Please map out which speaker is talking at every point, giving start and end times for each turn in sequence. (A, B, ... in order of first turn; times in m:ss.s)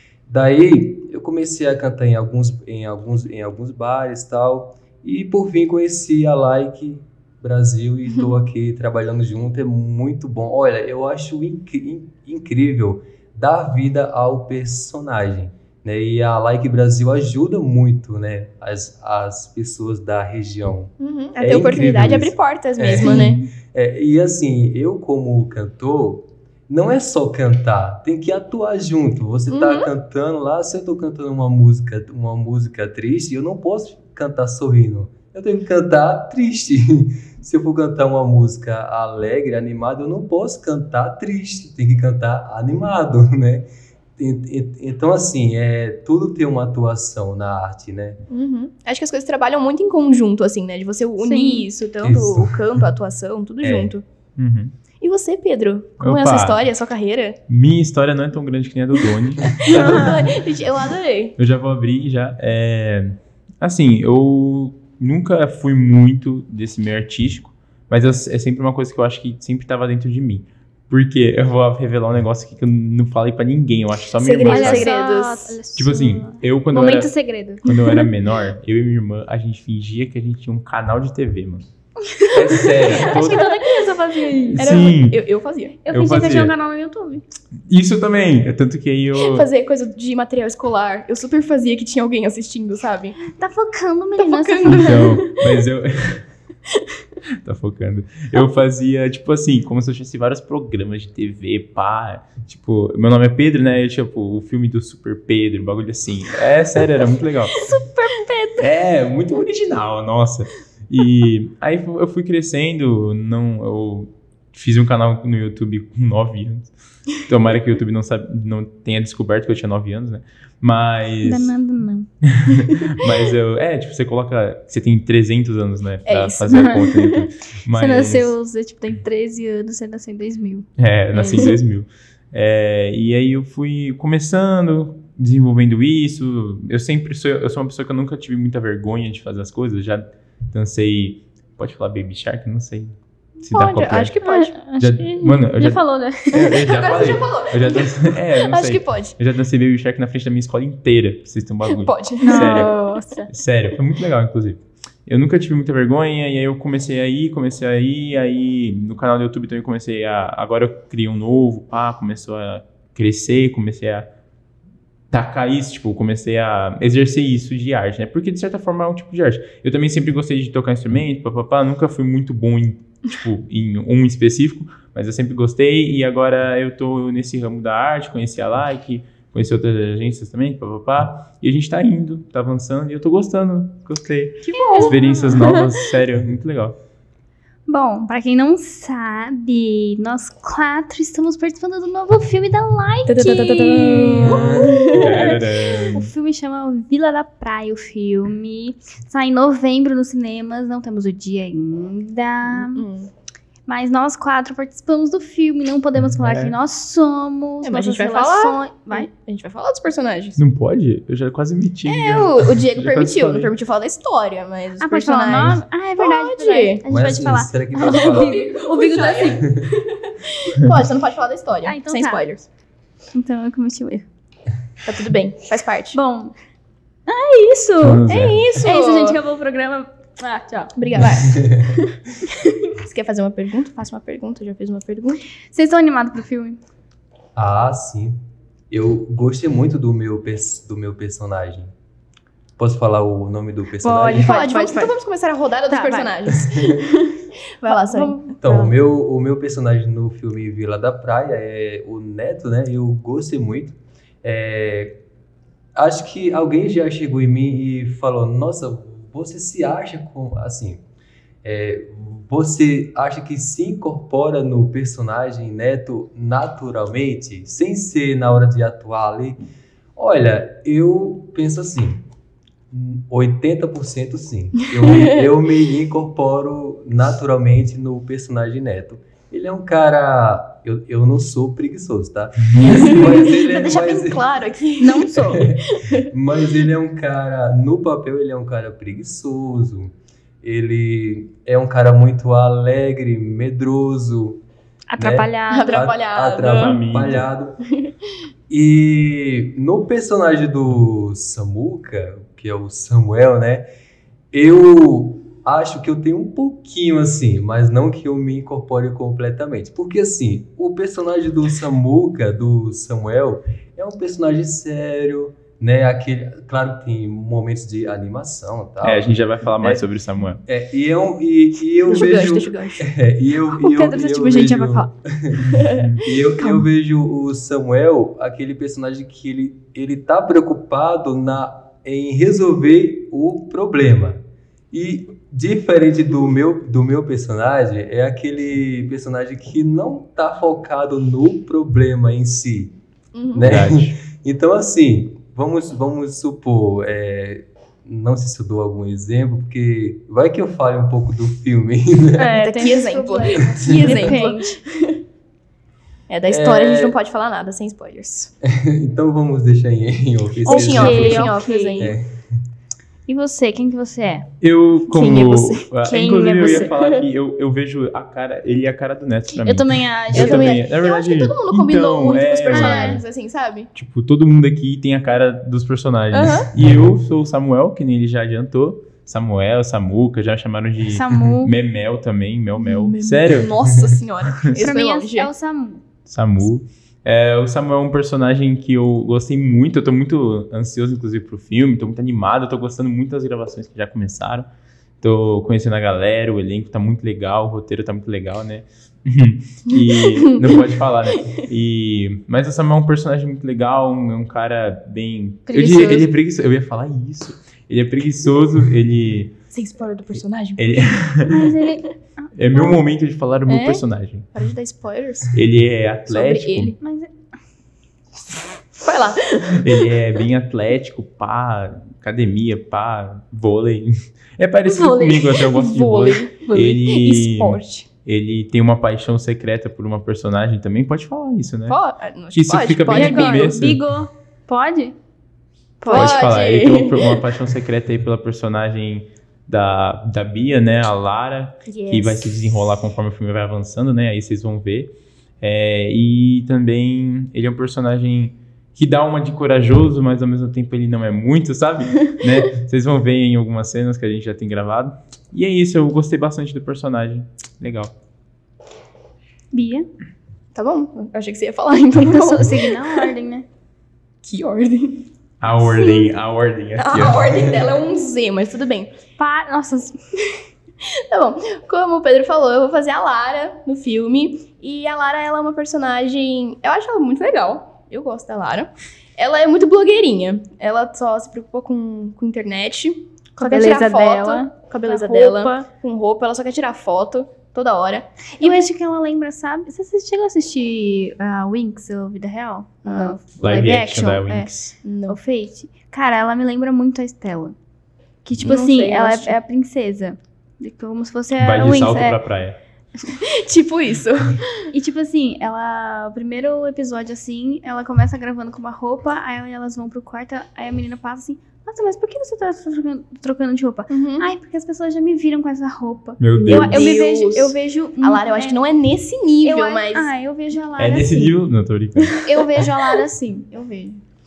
0:00.3-0:48.2 A
0:21.0-0:23.4 B
0:29.5-0:29.9 B
0:48.3-0:54.0 B
0:51.2-0:51.7 C
0:52.0-0:52.6 A
0:53.6-0:53.9 A
0:54.4-0:54.7 D
0:55.0-0:57.4 B
0:56.0-0:56.6 D
0:57.5-1:00.2 D
0:59.4-1:01.4 B
0:59.7-1:00.2 A
1:01.4-1:14.9 D
1:14.2-1:15.6 B
1:14.4-1:17.7 C
1:15.8-1:21.7 D
1:22.1-1:24.8 C
1:22.3-1:23.5 D
1:22.4-1:24.0 B
1:22.6-1:23.1 A
1:24.5-1:25.2 D
1:24.6-1:25.8 B
1:25.8-1:27.2 C
1:25.9-1:26.5 D
1:27.7-1:29.5 D
1:29.2-1:33.2 B
1:33.2-1:35.1 C
1:34.2-1:35.6 B
1:34.6-1:36.3 D
1:37.4-1:47.7 D
1:47.6-1:48.7 C
1:48.6-2:01.5 D
2:01.2-2:02.1 C
2:02.2-2:08.3 D
2:06.1-2:07.2 B
2:06.5-2:07.0 C
2:07.7-2:11.5 C
2:10.8-2:24.1 D
2:11.2-2:11.5 B
2:23.5-2:24.6 B
2:24.2-2:26.6 C
2:24.8-2:44.1 D
2:26.3-2:29.2 B
2:31.7-2:32.9 B
2:32.2-2:33.3 C
2:45.1-3:06.8 D
3:04.5-3:05.7 C
3:04.6-3:05.7 B
3:07.7-3:22.8 C
3:13.1-3:15.4 B
3:14.2-3:15.0 A
3:14.9-3:16.1 D
3:22.6-3:23.1 B
3:23.7-3:29.1 C
3:26.1-3:26.6 D
3:27.6-3:30.4 B
3:30.4-3:33.5 D
3:31.9-3:36.8 B
3:34.8-3:39.5 C
3:36.9-3:38.5 A
3:37.8-3:42.5 B
3:39.4-3:39.7 A
3:41.6-3:42.3 C
3:43.1-3:44.0 C
3:44.8-3:46.0 B
3:45.9-3:46.3 C
3:47.1-3:50.7 C
3:47.8-3:48.4 D
3:48.1-3:49.2 B
3:50.8-3:51.4 B
3:51.2-3:51.8 A
3:52.2-3:52.6 C
3:52.6-3:55.2 B
3:55.5-3:56.6 C
3:57.4-3:58.2 A
3:58.7-4:01.7 A
4:02.6-4:04.4 A
4:03.8-4:04.9 C
4:04.1-4:08.2 B
4:05.7-4:06.1 C
4:07.7-4:08.7 C
4:08.4-4:15.0 A
4:15.8-4:20.8 A
4:21.4-4:29.4 A
4:30.0-4:32.0 A
4:32.7-4:44.2 A
4:34.8-4:35.2 B
4:42.5-4:42.9 D
4:42.6-4:46.1 B
4:44.8-4:45.5 C
4:45.2-4:54.4 A
4:54.9-4:55.9 C
4:55.0-4:57.6 A
4:55.5-4:56.8 B
4:56.4-4:57.3 D
4:58.5-5:03.7 A
5:04.3-5:19.8 A
5:18.8-5:20.4 D
5:20.5-5:42.7 A
5:21.9-5:22.9 B
5:23.6-5:24.9 C
5:25.5-5:25.8 B
5:25.5-5:26.1 D
5:43.1-5:43.5 B
5:43.3-5:52.7 A
5:43.4-5:44.0 D
5:52.2-5:54.6 C
5:52.4-5:55.0 B
5:53.5-5:54.1 A
5:56.1-5:58.3 B
5:56.3-5:57.0 A
5:58.4-6:02.4 A
6:00.4-6:01.9 B
6:00.5-6:01.9 C
6:03.1-6:04.3 C
6:04.4-6:13.0 D
6:04.9-6:05.7 B
6:05.8-6:06.7 C
6:06.3-6:07.0 B
6:09.4-6:10.6 C
6:10.1-6:13.7 B
6:12.5-6:13.0 C
6:13.8-6:23.5 D
6:16.1-6:16.5 B
6:20.9-6:21.5 C
6:22.6-6:25.3 B
6:24.5-6:25.8 C
6:26.1-6:34.5 D
6:35.0-6:49.3 D
6:39.7-6:40.6 B
6:45.5-6:46.1 C
6:49.5-6:51.0 B
6:50.6-6:51.5 D
6:51.3-6:52.8 C
6:52.4-6:54.3 D
6:53.5-6:53.8 B
6:54.3-6:55.4 B
6:55.3-6:56.8 D
6:56.1-6:56.8 B
6:56.8-6:57.1 C
6:58.8-7:00.0 B
6:59.5-7:11.8 D
7:04.7-7:05.4 C
7:05.4-7:07.9 B
7:11.7-7:13.6 B
7:12.3-7:13.8 D
7:12.9-7:15.0 C
7:15.8-7:16.2 C
7:15.8-7:17.2 B
7:15.9-7:37.9 D
7:21.7-7:22.2 B
7:39.5-7:39.9 C
7:40.6-7:43.1 B
7:42.0-7:43.4 C
7:44.2-7:46.2 B
7:45.4-7:47.5 D
7:46.8-7:48.9 B
7:49.2-7:50.0 C
7:51.0-8:08.7 B
8:03.4-8:05.6 C
8:08.4-8:14.5 C
8:12.8-8:13.2 B
8:13.4-8:14.7 D
8:14.8-8:15.2 B
8:15.1-8:17.6 C
8:18.2-8:22.2 C
8:18.4-8:19.4 B
8:21.4-8:22.6 D
8:23.1-8:24.6 B
8:24.7-8:38.6 C
8:33.9-8:34.3 B
8:36.2-8:37.0 D
8:36.4-8:40.1 B
8:39.4-8:41.3 C
8:40.8-8:42.3 D
8:42.0-8:42.7 B
8:42.2-8:43.5 C
8:43.5-8:44.0 B